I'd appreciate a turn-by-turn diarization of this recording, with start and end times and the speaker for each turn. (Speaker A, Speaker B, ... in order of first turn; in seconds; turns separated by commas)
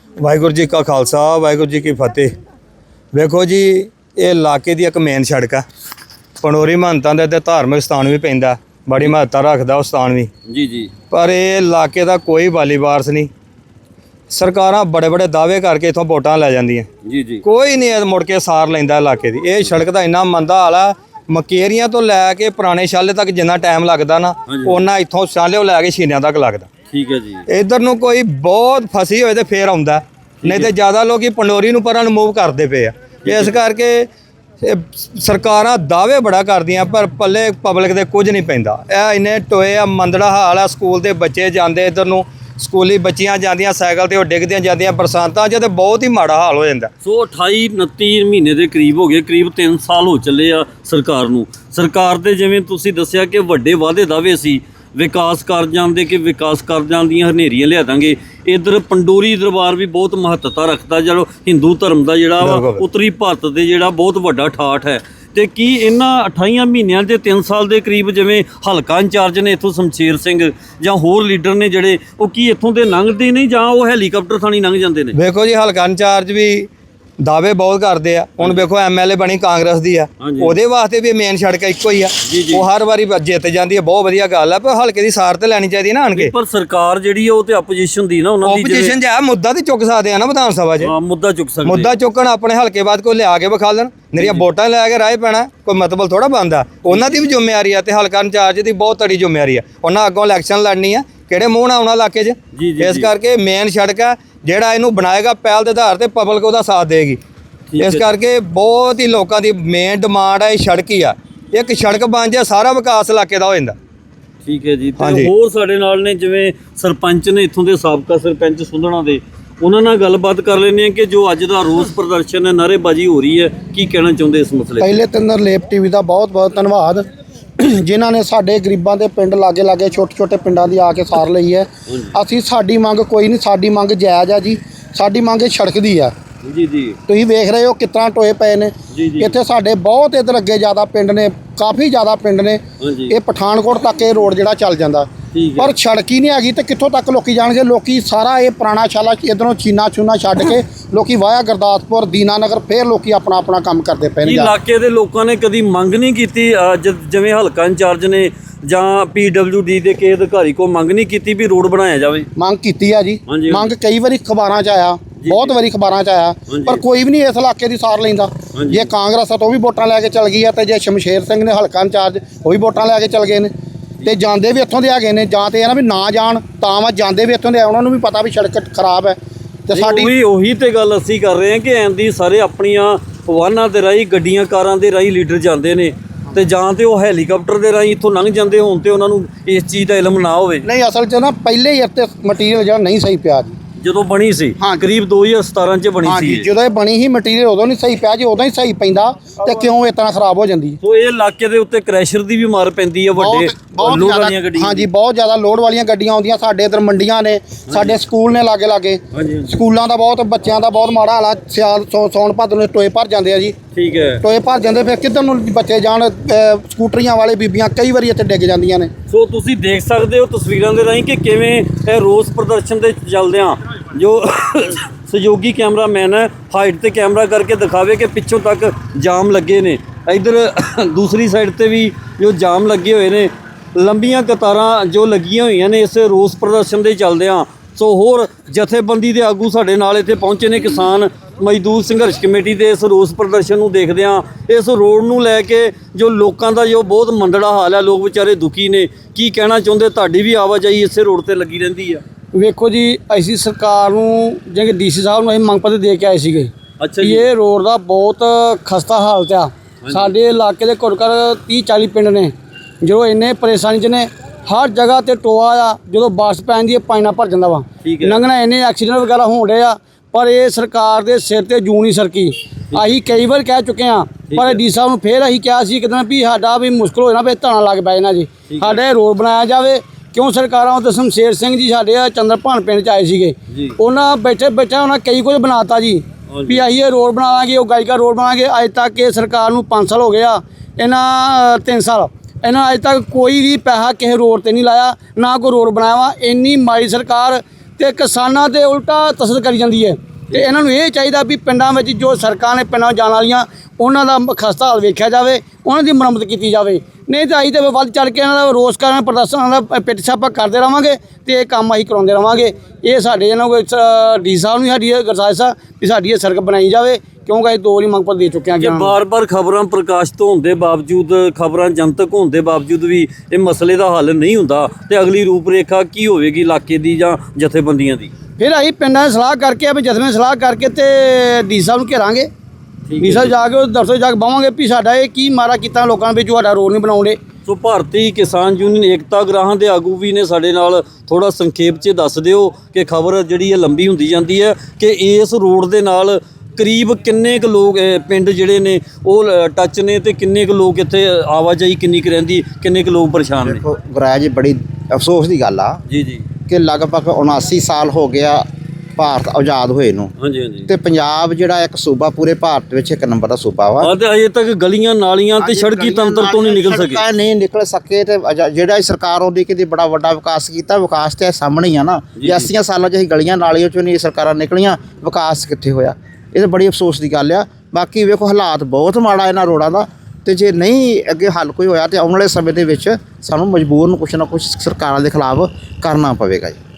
Speaker A: 0.2-2.3, Speaker A: 3.1-5.6, Speaker A: 6.4-10.3, Speaker B: 10.5-10.9, Speaker A: 11.1-13.3, Speaker A: 14.3-16.9, Speaker B: 17.0-17.4, Speaker A: 17.4-26.7, Speaker B: 24.5-24.8, Speaker B: 26.9-27.4, Speaker A: 27.5-34.1, Speaker B: 30.4-30.7, Speaker B: 33.2-33.6, Speaker A: 34.6-46.9, Speaker B: 47.0-75.2, Speaker A: 62.4-62.8, Speaker A: 75.1-86.3, Speaker B: 80.2-80.6, Speaker B: 82.2-82.7, Speaker B: 86.1-89.0, Speaker A: 88.4-90.9, Speaker B: 90.8-91.9, Speaker A: 91.6-107.2, Speaker B: 94.2-94.4, Speaker B: 96.9-97.2, Speaker B: 102.5-103.1, Speaker B: 107.7-108.1, Speaker A: 107.8-113.7, Speaker B: 114.4-125.0, Speaker A: 115.0-115.3, Speaker C: 124.8-127.0, Speaker C: 127.6-136.1, Speaker B: 131.9-132.1, Speaker B: 136.4-137.0, Speaker C: 137.1-154.5, Speaker B: 138.9-139.3, Speaker B: 142.8-143.1, Speaker B: 145.3-145.7, Speaker B: 154.2-162.3, Speaker C: 162.3-173.5, Speaker B: 163.3-163.7, Speaker B: 165.2-165.6, Speaker B: 166.5-166.8, Speaker B: 168.5-168.9, Speaker C: 174.0-179.2, Speaker C: 179.7-180.1, Speaker B: 179.7-190.7, Speaker C: 190.6-193.6, Speaker B: 193.8-196.5, Speaker C: 194.6-194.8, Speaker C: 196.0-200.8, Speaker B: 200.8-204.9, Speaker C: 203.2-213.5, Speaker B: 207.7-208.0, Speaker B: 209.1-209.6, Speaker B: 213.7-214.2, Speaker C: 214.2-218.9, Speaker B: 219.1-252.0, Speaker D: 252.3-318.9, Speaker B: 256.8-257.3, Speaker B: 259.8-260.1, Speaker B: 267.8-268.2, Speaker B: 274.3-274.6, Speaker B: 278.5-278.8, Speaker B: 283.5-283.8, Speaker B: 286.3-286.6, Speaker B: 318.6-328.1, Speaker D: 328.4-332.3, Speaker B: 332.9-333.3, Speaker D: 333.0-337.2, Speaker B: 337.4-353.6, Speaker E: 353.4-355.8, Speaker B: 355.9-356.2, Speaker E: 356.4-358.4, Speaker E: 359.0-360.1, Speaker B: 360.2-360.7, Speaker E: 360.7-363.9, Speaker B: 363.8-367.1, Speaker E: 365.4-386.6, Speaker B: 372.1-372.5